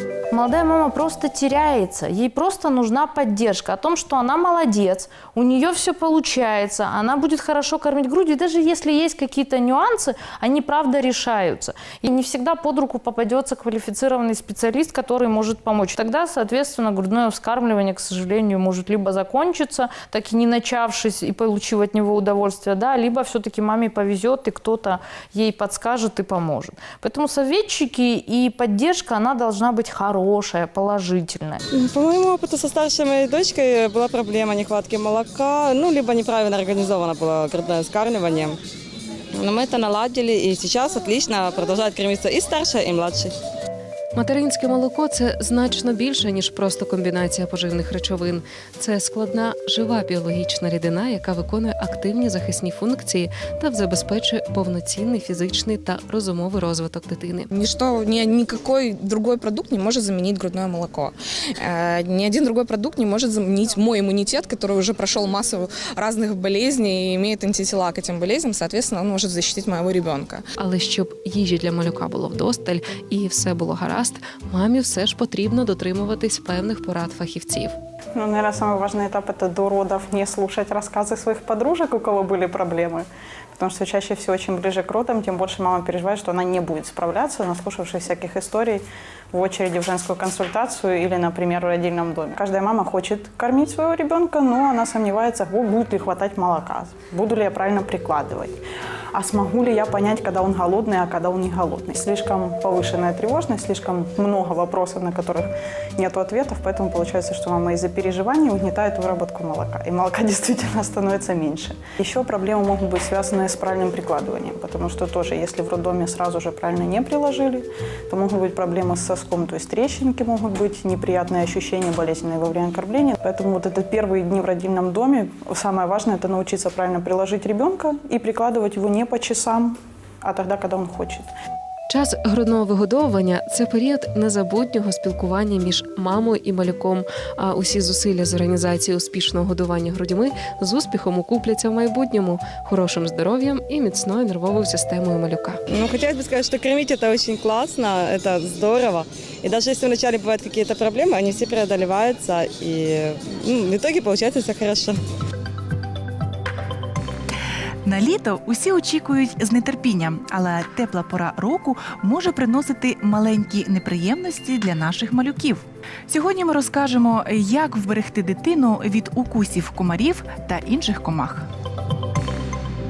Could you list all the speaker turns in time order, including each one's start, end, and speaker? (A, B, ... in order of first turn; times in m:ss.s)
0:00.3-0:31.6 A
0:31.7-0:38.6 B
0:39.3-0:43.3 B
0:44.1-0:57.5 C
0:57.5-1:10.4 D
1:10.6-1:17.7 C
1:18.2-1:23.0 E
1:23.6-1:38.6 E
1:39.1-2:11.3 E
2:11.9-2:25.6 C
2:25.7-2:35.0 B
2:37.8-2:51.5 F